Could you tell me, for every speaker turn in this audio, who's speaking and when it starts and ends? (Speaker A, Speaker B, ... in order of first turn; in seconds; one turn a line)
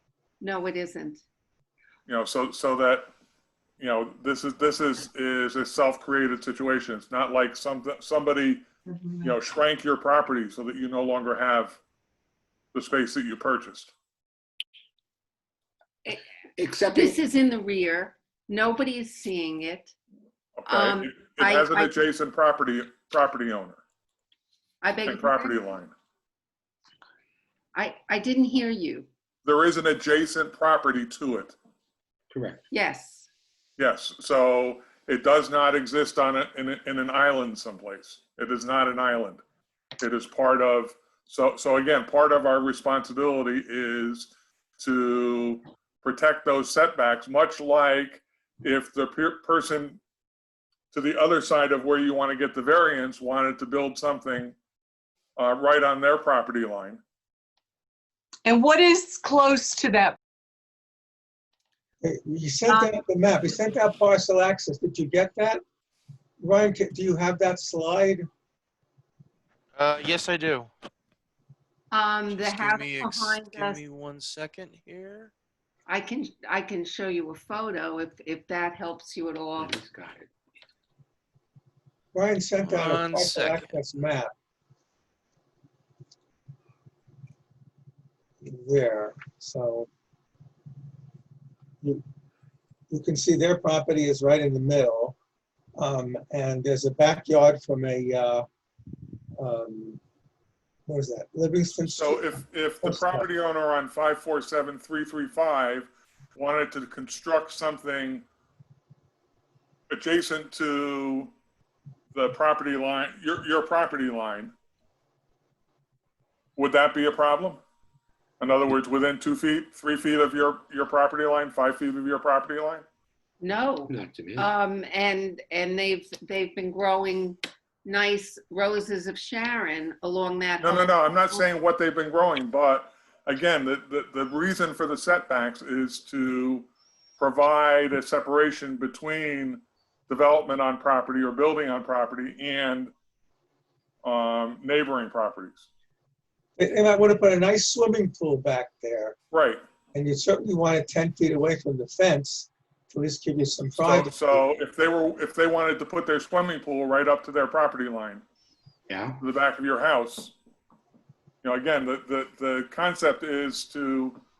Speaker A: 0.4-1.2
Speaker B: 2.1-3.1
Speaker B: 3.8-8.7
Speaker C: 8.9-9.3
Speaker B: 9.2-11.8
Speaker B: 12.7-13.9
Speaker D: 16.6-17.2
Speaker A: 16.9-19.9
Speaker B: 20.6-23.8
Speaker A: 20.7-21.9
Speaker A: 24.8-25.6
Speaker B: 25.1-25.9
Speaker A: 27.7-29.1
Speaker B: 29.4-31.5
Speaker D: 32.3-32.6
Speaker A: 32.7-33.3
Speaker B: 33.8-39.4
Speaker B: 40.0-50.0
Speaker B: 50.9-54.5
Speaker B: 55.4-57.0
Speaker C: 58.4-60.2
Speaker E: 62.0-65.6
Speaker A: 62.7-62.9
Speaker E: 66.4-68.3
Speaker F: 69.8-70.7
Speaker A: 71.9-73.8
Speaker F: 72.3-75.3
Speaker A: 75.9-79.8
Speaker D: 79.6-80.3
Speaker E: 82.1-84.3
Speaker F: 82.6-83.8
Speaker E: 88.4-89.9
Speaker E: 92.9-95.1
Speaker E: 95.8-98.5
Speaker E: 99.4-100.0
Speaker E: 100.9-103.2
Speaker B: 101.9-108.2
Speaker B: 109.9-111.3
Speaker B: 112.1-114.5
Speaker B: 116.5-117.6
Speaker B: 118.4-122.8
Speaker A: 123.4-131.4
Speaker D: 123.9-124.5
Speaker B: 130.6-136.7
Speaker B: 137.2-142.9
Speaker B: 144.0-145.6
Speaker E: 146.6-149.2
Speaker B: 149.3-149.6
Speaker E: 149.9-154.2
Speaker B: 153.8-158.2
Speaker D: 158.9-159.2
Speaker B: 159.2-160.3
Speaker B: 161.4-164.2